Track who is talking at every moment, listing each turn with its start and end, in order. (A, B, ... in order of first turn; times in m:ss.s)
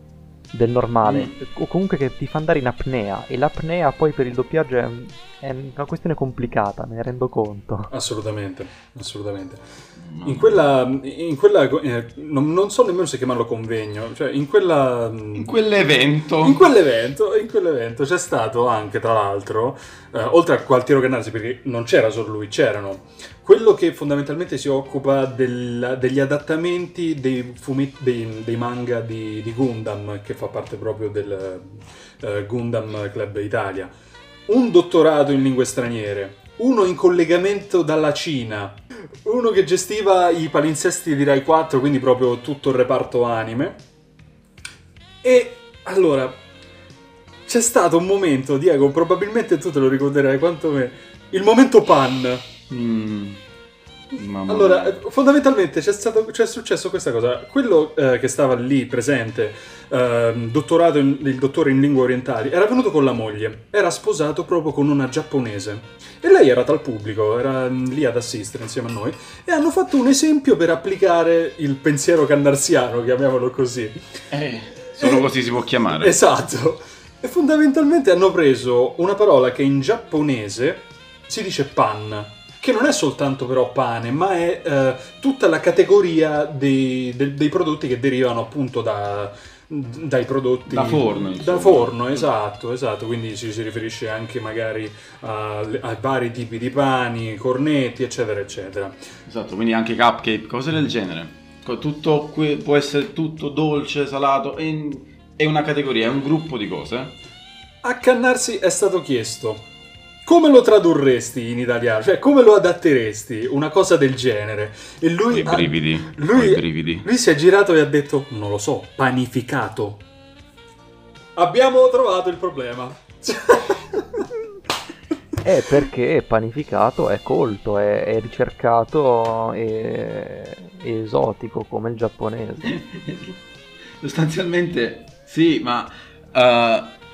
0:00.5-0:07.9 A
0:01.0-0:01.3 B
0:07.9-0:09.6 C
0:10.0-0:10.6 B
0:10.2-0:15.5 C
0:15.3-0:16.6 B
0:16.4-0:33.9 C
0:34.5-0:43.8 C
0:45.2-0:46.4 C
0:47.5-0:52.5 C
0:52.7-0:53.4 B
0:54.1-0:55.0 B
0:54.4-1:14.2 C
1:14.3-1:16.2 B
1:15.0-1:15.3 C
1:15.9-1:39.0 C
1:30.6-1:32.3 B
1:39.3-1:47.2 B
1:47.8-1:49.7 C
1:50.2-2:00.0 C
1:55.3-1:57.0 B
2:01.4-2:04.3 C
2:05.4-2:12.7 A
2:12.6-2:13.4 B
2:14.0-2:17.0 B